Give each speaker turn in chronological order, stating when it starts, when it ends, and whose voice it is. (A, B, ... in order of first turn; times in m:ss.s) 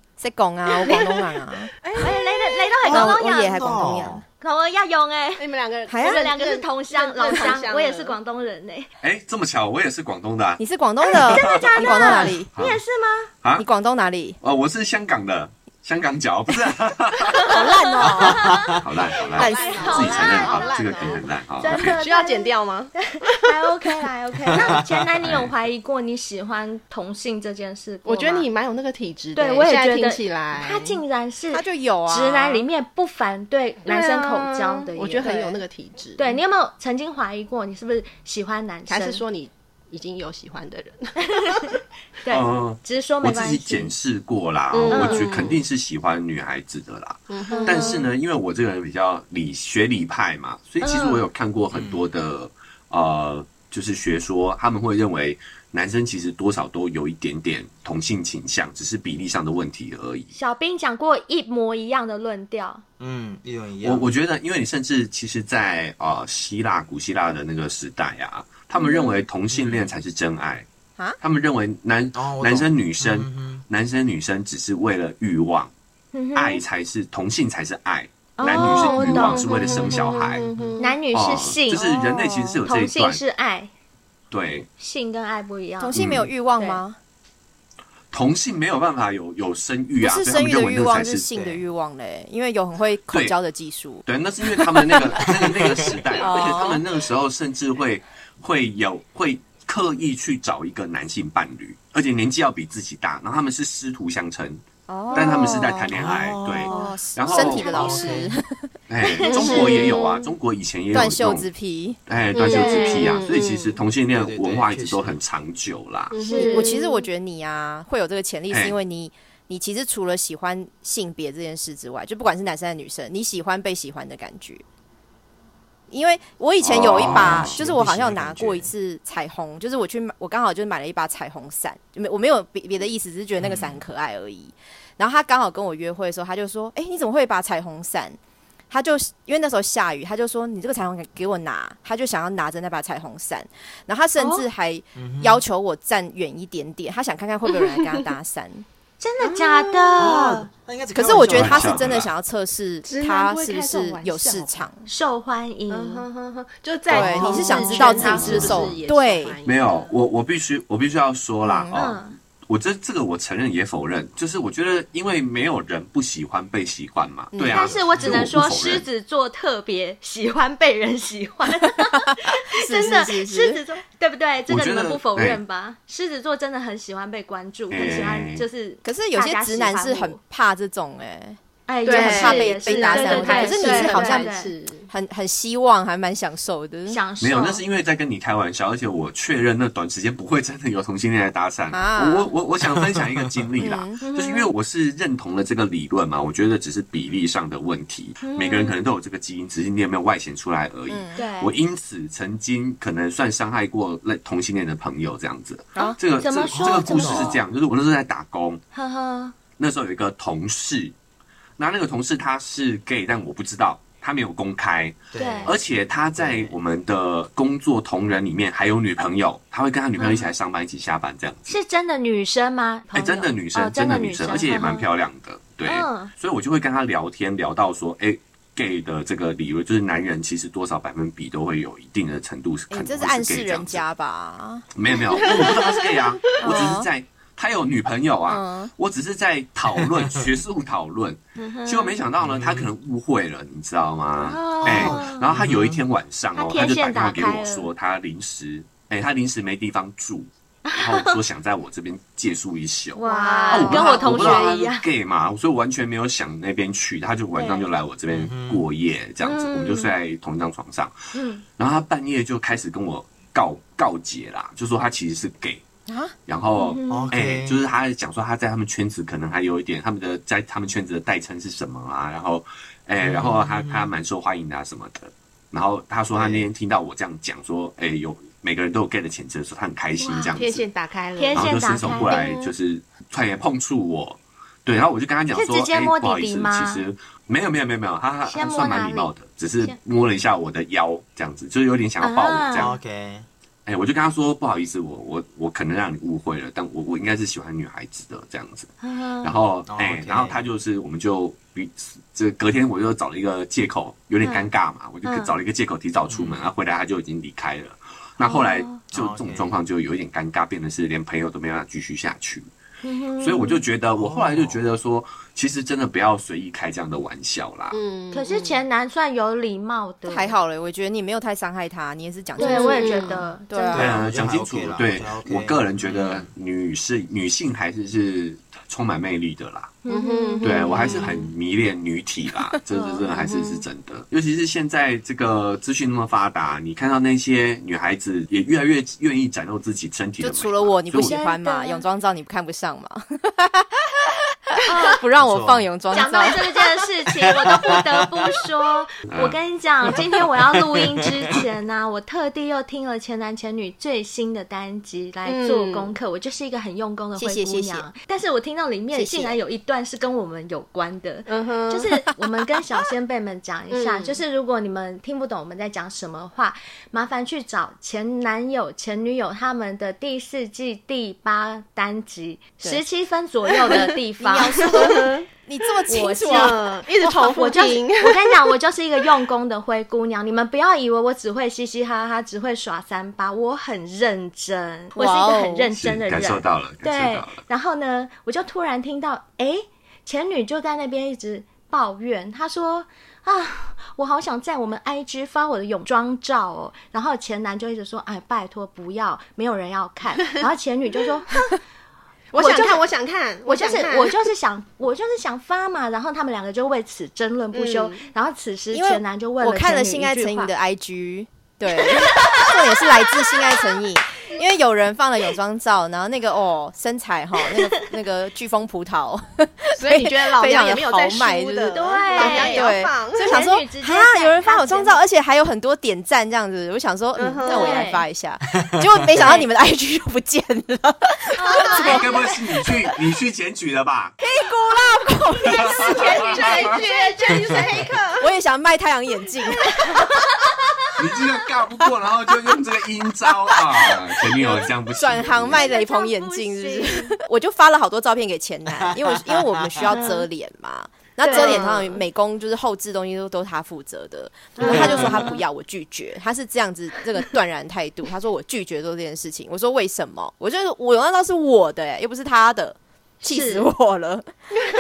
0:00.2-0:01.7 A
0:01.8-0:02.7 B
0:02.0-0:03.8 C
0:02.8-0:04.2 D
0:02.9-0:04.2 A
0:04.4-0:08.9 C
0:05.4-0:08.2 B
0:05.9-0:06.2 A
0:09.0-0:10.6 E
0:10.6-0:12.5 A
0:11.2-0:12.8 E
0:11.3-0:13.3 C
0:13.6-0:14.4 A
0:14.4-0:17.6 E
0:17.3-0:18.8 C
0:17.5-0:18.5 A
0:18.3-0:18.8 D
0:18.8-0:22.0 E
0:19.3-0:23.6 B
0:19.4-0:20.6 A
0:19.4-0:28.5 C
0:24.5-0:25.0 D
0:25.2-0:25.5 E
0:28.0-0:31.0 B
0:29.4-0:35.6 C
0:31.5-0:32.6 A
0:33.8-0:36.4 B
0:36.2-0:39.2 C
0:38.9-0:41.7 B
0:41.2-0:43.9 C
0:42.3-1:00.3 E
0:44.7-0:45.6 B
0:44.9-0:45.4 C
0:47.3-0:48.1 B
0:47.5-0:48.0 C
0:50.8-0:51.2 C
1:00.3-1:02.8 C
1:03.0-1:04.1 D
1:03.8-1:10.7 E
1:08.8-1:09.2 C
1:09.5-1:09.9 D
1:11.2-1:15.7 E
1:12.2-1:13.6 D
1:16.1-1:16.6 C
1:16.4-1:20.5 E
1:18.4-1:19.9 C
1:18.4-1:21.0 B
1:20.4-1:20.8 D
1:20.8-1:23.7 C
1:21.1-1:23.2 E
1:21.8-1:22.6 A
1:24.3-1:24.7 E
1:24.8-1:26.0 C
1:25.8-1:27.0 A
1:26.0-1:26.3 E
1:26.6-1:26.8 C
1:28.1-1:31.3 E
1:30.0-1:34.0 A
1:31.3-1:31.6 D
1:33.1-1:33.4 E
1:34.1-1:44.6 E
1:34.6-1:35.4 A
1:35.6-1:35.9 D
1:36.1-1:36.8 A
1:44.9-1:45.9 A
1:45.1-1:45.5 C
1:45.1-1:48.0 E
1:45.9-1:46.8 D
1:46.7-1:48.7 A
1:47.3-1:48.4 D
1:47.6-1:48.2 C
1:48.9-1:51.5 E
1:49.0-1:50.3 C
1:49.2-1:50.0 B
1:50.9-1:52.0 A
1:52.1-1:56.2 E
1:52.4-1:53.2 C
1:52.4-1:53.8 B
1:54.1-1:55.2 D
1:56.1-1:56.9 B
1:56.2-1:57.0 C
1:56.5-2:04.6 A
1:58.5-1:58.8 E
2:05.9-2:18.2 A
2:06.6-2:07.6 E
2:06.7-2:08.7 D
2:13.4-2:13.8 D
2:18.7-2:28.6 A
2:24.2-2:24.5 C
2:25.0-2:25.4 D
2:29.0-2:30.5 C
2:29.2-2:30.3 B
2:30.0-2:32.1 D
2:31.0-2:34.9 A
2:31.1-2:32.1 E
2:32.8-2:34.7 B
2:34.9-2:36.1 C
2:35.7-2:39.9 B
2:36.9-2:39.4 A
2:36.9-2:38.7 C
2:38.0-2:38.8 E
2:39.4-2:48.9 E
2:41.4-2:41.8 A
2:41.7-2:42.2 C
2:47.4-2:47.6 A
2:47.5-2:48.2 D
2:47.5-3:00.2 C
2:52.5-2:53.6 A
2:54.5-2:55.4 E
2:57.7-2:58.4 E
2:58.8-3:04.3 A
3:01.7-3:04.5 C
3:01.8-3:04.9 B
3:04.9-3:07.0 A
3:06.9-3:07.6 C
3:07.2-3:28.6 E
3:11.7-3:12.3 A
3:12.8-3:13.5 D
3:13.6-3:14.0 A
3:14.0-3:14.5 C
3:18.2-3:18.8 C
3:20.9-3:21.2 A
3:21.2-3:21.6 C
3:25.8-3:27.4 C
3:26.5-3:27.4 D
3:28.7-3:29.4 C
3:29.6-3:31.0 E
3:31.6-3:41.6 E
3:35.1-3:35.6 D
3:35.2-3:35.5 C
3:36.2-3:36.6 D
3:40.0-3:40.3 C
3:41.5-3:44.9 C
3:42.9-3:53.8 E
3:45.6-3:46.1 C
3:52.7-3:54.6 A
3:54.8-4:20.9 E
3:55.1-3:56.4 B
3:56.4-3:56.9 A
3:58.3-3:58.7 A
3:59.8-4:00.3 D
4:01.4-4:02.0 C
4:02.2-4:02.7 D
4:04.2-4:05.3 C
4:04.6-4:05.8 D
4:06.4-4:07.7 C
4:10.7-4:11.2 C
4:13.0-4:14.8 C
4:13.0-4:14.6 B
4:17.3-4:17.7 C
4:18.1-4:18.6 D
4:19.2-4:19.9 C
4:21.1-4:21.4 C
4:21.6-4:25.6 E
4:25.9-4:26.1 A
4:26.3-4:40.6 E
4:26.5-4:27.1 C
4:26.9-4:27.6 D
4:33.0-4:33.9 D
4:36.1-4:36.5 D
4:40.0-4:40.4 C
4:40.3-4:42.2 B
4:41.2-4:42.5 C
4:41.3-4:52.8 E
4:45.3-4:46.8 C
4:48.3-4:49.1 C
4:52.0-4:52.7 C
4:52.5-4:53.3 D
4:53.7-5:12.5 E
4:58.8-4:59.4 C
4:59.7-5:00.4 D
5:04.2-5:04.5 C
5:05.0-5:05.3 C
5:06.1-5:06.4 D
5:08.2-5:08.8 C
5:08.9-5:09.5 D
5:12.8-5:13.6 C
5:13.2-5:17.8 E
5:14.0-5:14.6 D
5:17.7-5:18.6 B
5:18.1-5:20.3 C
5:20.1-5:23.9 A
5:22.4-5:23.9 C
5:22.4-5:23.3 B
5:23.7-5:26.3 D
5:23.7-5:29.8 E
5:29.8-5:31.2 C
5:29.9-5:31.3 B
5:30.4-5:41.2 E
5:32.7-5:33.4 C
5:33.2-5:33.6 B
5:40.2-5:43.9 A
5:41.0-5:41.8 C
5:44.6-5:46.6 A
5:44.7-5:45.0 C
5:45.2-5:45.7 D
5:45.9-6:15.1 C
5:49.1-5:49.4 E
5:55.2-5:55.9 B
5:57.2-5:57.9 A
5:58.9-5:59.4 A
6:01.3-6:01.9 B
6:03.7-6:04.2 B
6:14.2-6:16.6 A
6:14.7-6:15.3 B
6:15.9-6:18.6 B
6:15.9-6:41.4 C
6:25.0-6:25.7 A
6:25.8-6:27.4 E
6:42.3-6:44.3 B
6:42.3-6:42.8 C
6:43.5-6:50.5 C
6:47.5-6:48.1 B
6:48.7-7:12.8 A
6:51.8-6:52.6 C
6:59.8-7:03.5 B
7:01.7-7:05.0 C
7:07.2-7:08.0 B
7:07.4-7:08.1 C
7:11.3-7:12.4 C
7:11.7-7:14.2 E
7:14.2-7:16.7 A
7:15.5-7:16.8 E
7:15.6-7:18.3 B
7:16.1-7:17.6 C
7:18.2-7:20.0 A
7:19.8-7:20.5 C
7:21.0-7:25.6 E
7:23.5-7:44.3 A
7:25.5-7:27.2 C
7:28.7-7:29.9 D
7:29.9-7:30.2 C
7:31.2-7:31.7 C
7:31.2-7:32.0 B
7:34.6-7:35.4 C
7:34.6-7:35.3 B
7:43.2-7:43.7 C